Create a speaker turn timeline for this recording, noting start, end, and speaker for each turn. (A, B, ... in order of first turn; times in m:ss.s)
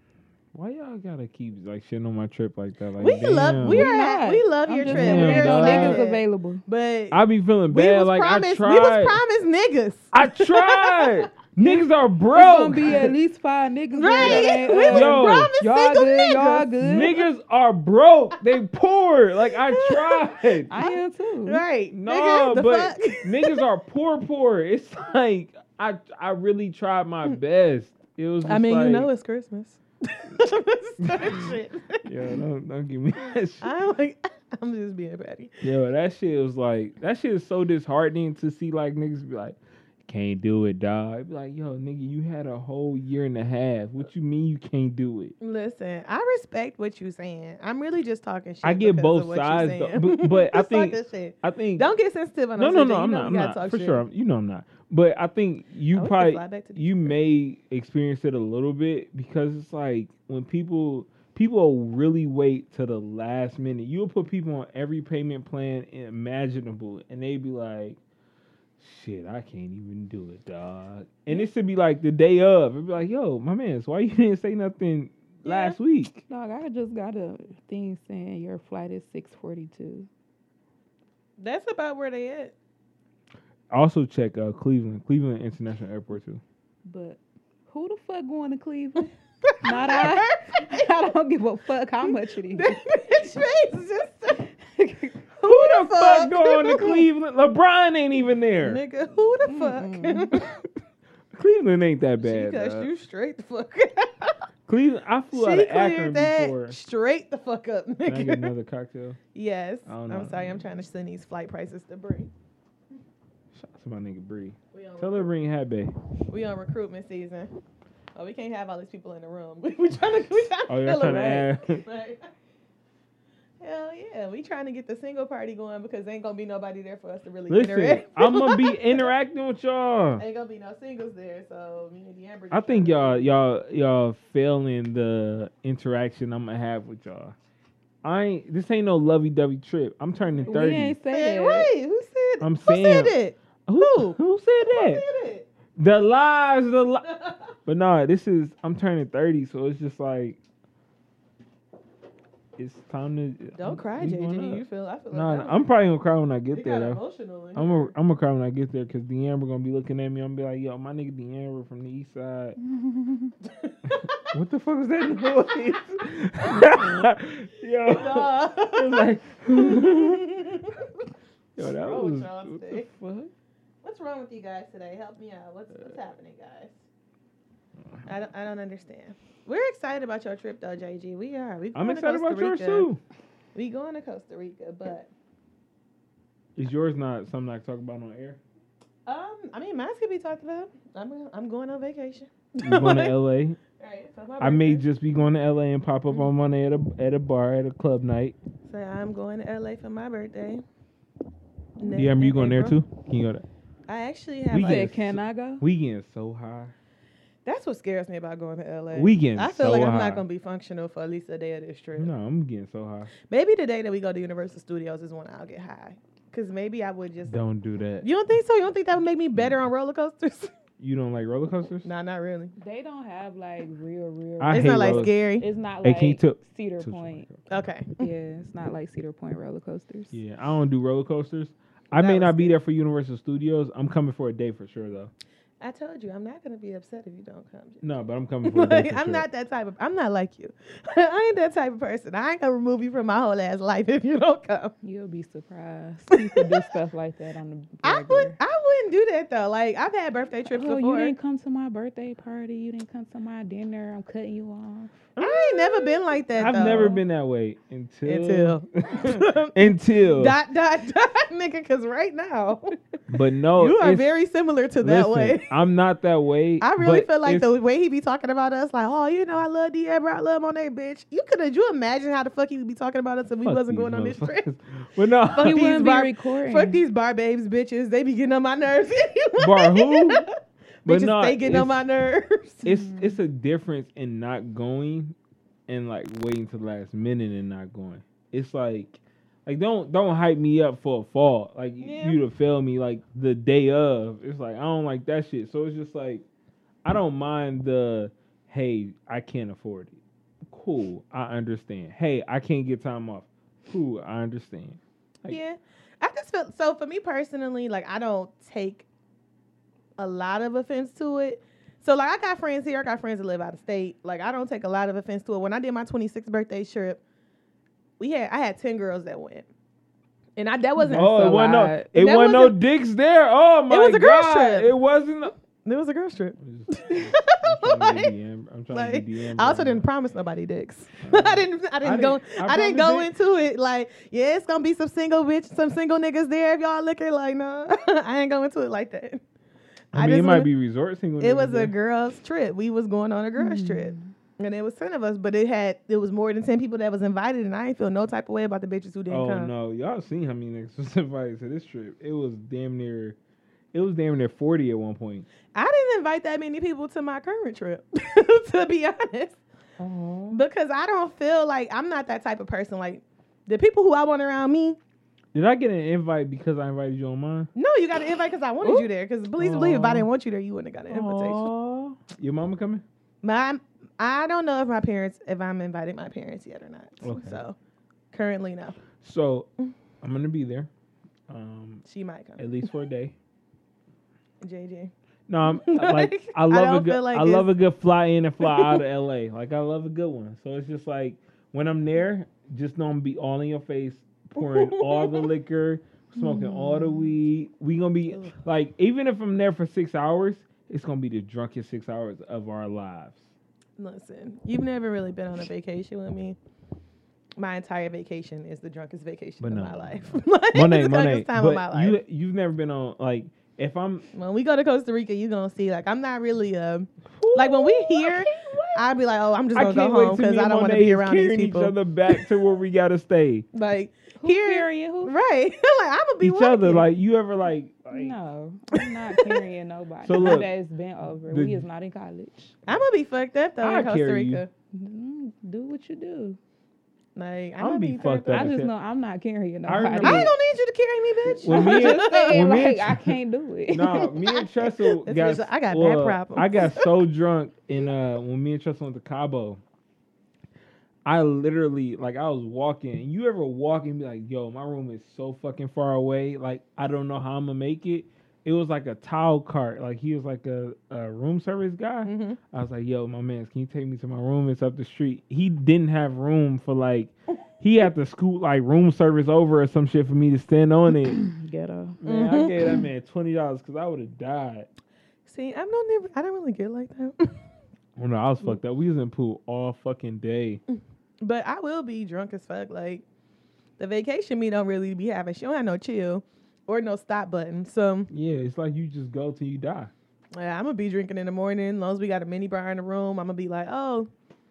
0:00.5-0:03.9 A
0:03.0-0:11.3 B
0:03.6-0:06.6 C
0:04.9-0:06.0 A
0:07.1-0:09.2 A
0:10.1-0:13.1 A
0:12.3-0:17.2 C
0:14.0-0:17.1 B
0:14.2-0:15.5 A
0:16.8-0:20.7 A
0:19.6-0:23.6 B
0:20.7-0:21.6 C
0:21.9-0:29.1 A
0:28.5-0:32.0 B
0:31.0-0:33.7 A
0:33.6-0:35.6 B
0:35.6-0:45.4 A
0:45.4-0:54.0 B
0:48.6-0:51.9 A
0:52.6-1:08.0 A
0:55.9-0:57.2 B
1:08.8-1:16.2 A
1:15.4-1:15.8 B
1:16.3-1:20.1 C
1:21.4-1:22.6 B
1:23.7-1:26.4 A
1:26.9-1:33.2 C
1:29.5-1:30.8 B
1:32.5-1:34.5 B
1:34.7-1:35.2 C
1:35.4-1:37.0 B
1:35.4-1:38.8 A
1:38.6-1:40.4 B
1:39.5-1:40.4 C
1:41.3-1:42.9 A
1:42.2-1:44.4 B
1:44.7-1:46.8 A
1:45.3-1:48.5 B
1:48.0-1:49.2 A
1:49.3-1:52.3 B
1:49.9-1:50.6 A
1:53.5-1:55.9 A
1:54.7-1:55.3 B
1:56.3-1:57.5 B
1:58.2-2:02.3 B
2:00.7-2:01.9 A
2:03.6-2:09.1 B
2:07.5-2:10.2 A
2:10.2-2:13.3 B
2:12.5-2:17.4 A
2:18.0-2:21.0 A
2:20.4-2:25.5 B
2:20.5-2:21.7 C
2:22.4-2:23.2 A
2:23.7-2:25.0 A
2:25.8-2:30.4 A
2:32.6-2:37.0 A
2:33.6-2:35.7 B
2:36.5-2:37.9 B
2:37.6-2:42.6 A
2:42.7-2:43.3 C
2:43.4-2:44.3 B
2:44.2-2:50.4 A
2:47.9-2:51.1 B
2:51.6-2:53.3 A
2:51.6-2:52.9 B
2:53.8-2:56.8 B
2:58.1-3:02.9 B
3:01.8-3:03.0 A
3:03.6-3:05.1 B
3:06.6-3:08.4 A
3:09.1-3:13.2 B
3:12.6-3:13.6 A
3:13.8-3:14.8 B
3:14.4-3:18.4 A
3:18.7-3:20.6 B
3:21.8-3:22.8 B
3:21.9-3:23.5 A
3:23.9-3:24.9 B
3:24.5-3:26.7 A
3:24.5-3:25.7 C
3:27.4-3:32.1 B
3:28.9-3:30.2 A
3:32.0-3:33.1 A
3:33.3-3:37.4 B
3:37.3-3:38.1 A
3:38.0-3:40.5 B
3:40.8-3:41.9 A
3:41.8-3:42.5 B
3:42.6-3:47.3 C
3:44.4-3:45.1 A
3:44.5-3:45.5 B
3:45.8-3:47.7 A
3:47.5-3:47.9 B
3:48.0-3:50.2 C
3:50.1-3:55.1 A
3:51.9-3:52.6 B
3:55.6-3:57.9 B
3:57.8-3:59.2 A
3:58.4-4:04.7 B
4:04.8-4:08.4 C
4:06.1-4:06.7 B
4:07.8-4:11.1 B
4:10.5-4:15.2 C
4:15.2-4:15.4 A
4:15.2-4:17.0 B
4:16.4-4:20.4 A
4:16.4-4:17.0 C
4:18.0-4:22.8 B
4:23.1-4:24.1 A
4:23.6-4:25.5 B
4:24.8-4:27.5 A
4:26.6-4:34.5 B
4:33.4-4:35.8 A
4:35.3-4:40.3 B
4:35.4-4:36.8 C
4:39.4-4:40.3 A
4:40.8-4:42.7 B
4:40.8-4:41.8 A
4:42.6-4:45.2 A
4:45.7-4:56.2 A
4:51.8-4:52.2 B
4:56.8-5:05.4 A
5:05.3-5:08.9 B
5:10.0-5:17.0 B
5:18.0-5:19.5 B
5:20.4-5:22.6 B
5:20.8-5:21.9 C
5:20.9-5:25.4 A
5:23.7-5:24.7 B
5:25.6-5:28.1 B
5:26.4-5:29.9 A
5:28.7-5:39.2 B
5:31.0-5:33.1 A
5:39.9-5:40.5 B
5:39.9-5:41.7 A
5:41.2-5:49.5 B
5:43.4-5:44.1 C
5:49.1-5:53.2 A
5:53.7-5:55.3 A
5:55.5-5:59.4 B
5:59.8-6:00.4 A
6:00.3-6:04.8 B
6:05.3-6:07.5 A
6:07.6-6:11.5 B
6:08.6-6:10.1 A
6:10.9-6:12.8 A
6:13.2-6:17.6 B
6:17.0-6:17.4 A
6:18.1-6:18.8 B
6:19.0-6:19.5 A
6:20.0-6:20.7 A
6:21.3-6:21.8 A
6:21.8-6:22.4 B
6:22.4-6:23.2 A
6:24.4-6:24.9 B
6:25.3-6:43.2 A
6:25.5-6:27.5 B
6:28.4-6:28.8 B
6:34.4-6:35.3 B
6:36.2-6:37.1 C
6:43.8-6:46.4 B
6:47.4-6:52.0 B
6:49.4-6:54.1 A
6:54.1-7:02.2 B
6:57.1-6:58.8 A
6:59.5-7:03.5 A
7:03.5-7:06.9 B
7:04.2-7:05.1 C
7:06.2-7:08.2 A
7:07.9-7:12.6 C
7:08.8-7:09.4 B
7:10.0-7:10.5 A
7:11.3-7:11.6 A
7:12.7-7:14.5 B
7:13.6-7:14.4 A
7:14.7-7:16.4 C
7:17.2-7:18.5 B
7:17.6-7:18.7 A
7:18.3-7:20.3 C
7:19.6-7:20.3 A
7:20.0-7:22.7 B
7:21.4-7:23.2 A
7:21.5-7:24.0 C
7:23.7-7:29.6 A
7:23.9-7:26.9 B
7:31.0-7:51.2 A
7:42.0-7:42.4 B
7:51.2-7:52.0 C
7:52.0-7:54.7 A
7:52.1-7:52.6 B
7:55.3-7:57.4 B
7:58.0-8:00.6 A
8:01.2-8:03.0 B
8:03.8-8:08.1 B
8:08.1-8:09.9 A
8:10.3-8:14.1 B